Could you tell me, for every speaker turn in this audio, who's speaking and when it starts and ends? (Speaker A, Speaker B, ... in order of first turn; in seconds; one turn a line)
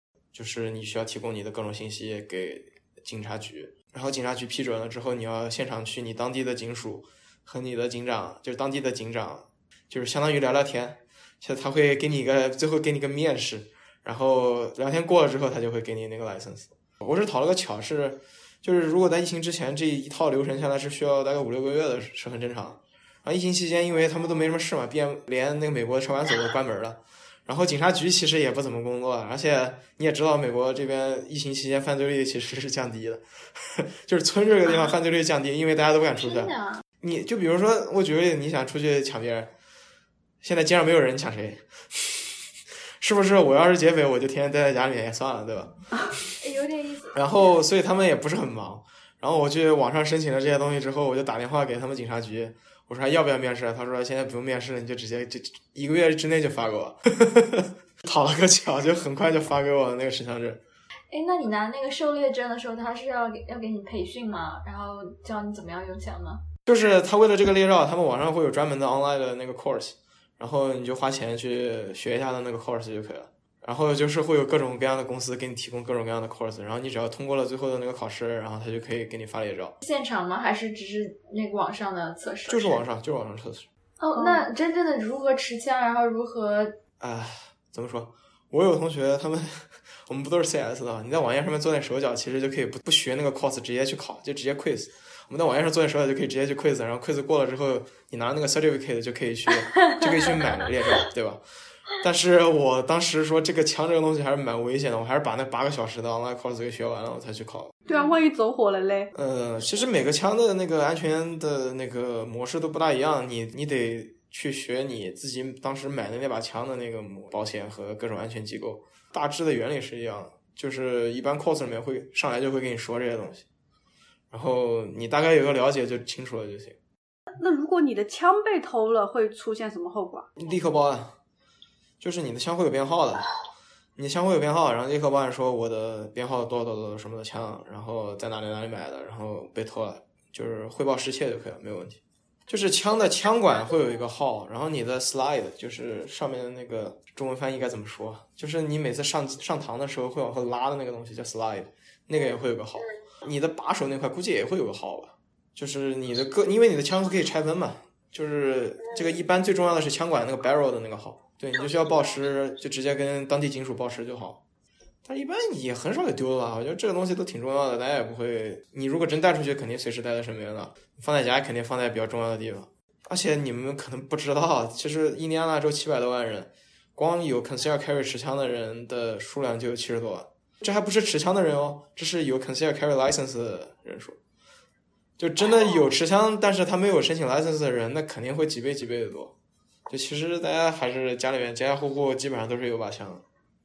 Speaker A: 0.3-39.5
Speaker B: 36.3-36.8
Speaker A: 40.4-42.4
Speaker A: 43.0-45.7
Speaker B: 46.4-47.1
Speaker A: 47.1-60.6
Speaker B: 61.1-66.4
Speaker A: 66.7-79.8
Speaker B: 79.8-82.8
Speaker A: 82.5-83.7
Speaker B: 84.0-86.8
Speaker C: 84.1-84.4
Speaker A: 87.0-107.8
Speaker C: 107.8-109.1
Speaker A: 109.1-123.4
Speaker A: 124.3-126.8
Speaker C: 127.4-130.3
Speaker A: 130.4-131.2
Speaker A: 132.0-133.3
Speaker A: 134.0-164.4
Speaker A: 165.0-184.2
Speaker A: 185.2-189.3
Speaker A: 189.9-193.2